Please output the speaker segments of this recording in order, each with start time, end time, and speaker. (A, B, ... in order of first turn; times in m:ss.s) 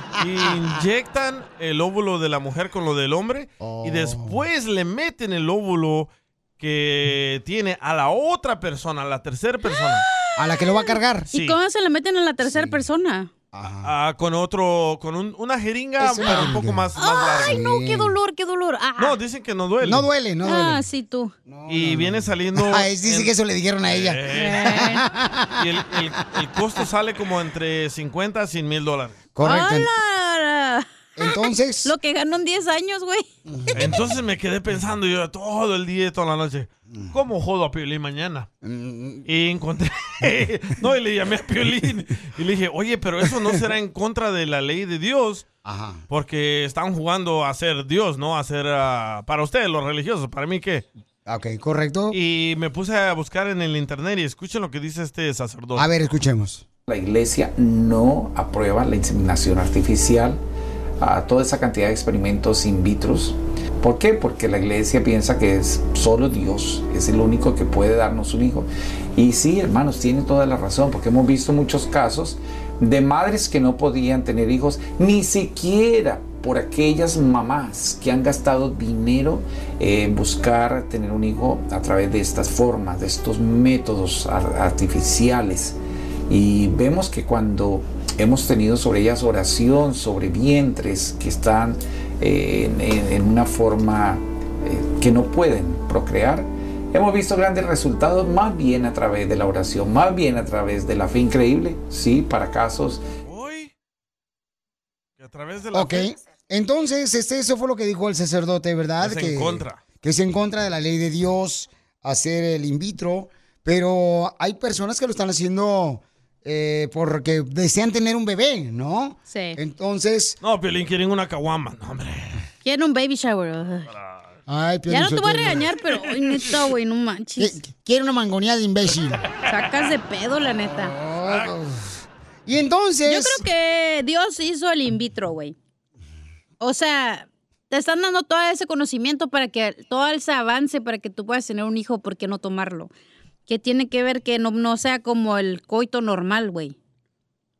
0:00.2-0:10.0 A
0:03.6-0:04.4 B
0:10.4-0:11.3 B
0:10.7-0:13.3 C
0:11.3-0:11.6 A
0:12.4-0:12.8 B
0:13.5-0:13.9 B
0:13.8-0:17.6 A
0:16.0-0:16.9 B
0:17.0-0:19.2 C
0:17.4-0:18.1 B
0:19.0-0:20.1 A
0:19.8-0:20.8 B
0:20.4-0:21.3 C
0:21.5-0:25.5 B
0:21.7-0:23.3 A
0:23.9-0:24.8 A
0:24.3-0:25.0 C
0:25.6-0:29.2 A
0:29.3-0:29.9 B
0:29.4-0:33.2 C
0:31.2-0:31.9 B
0:33.5-0:33.9 B
0:33.7-0:38.5 A
0:38.6-0:39.2 B
0:39.2-0:45.4 A
0:45.6-0:46.0 B
0:46.1-0:50.8 A
0:51.2-0:52.2 B
0:52.1-0:55.9 A
0:55.8-0:56.6 B
0:56.9-1:00.4 D
1:01.0-1:25.8 D
1:26.3-1:43.0 D
1:43.2-1:43.7 A
1:45.2-1:46.1 A
1:45.7-2:00.4 B
1:49.0-1:49.8 A
1:59.3-1:59.6 C
2:00.4-2:02.4 A
2:02.6-2:03.9 C
2:03.9-2:04.2 A
2:04.5-2:05.7 B
2:04.9-2:07.6 C
2:07.4-2:09.2 B
2:09.4-2:10.9 C
2:10.8-2:13.4 B
2:11.2-2:11.5 A
2:13.0-2:15.5 C
2:16.6-2:22.9 C
2:23.5-2:26.8 C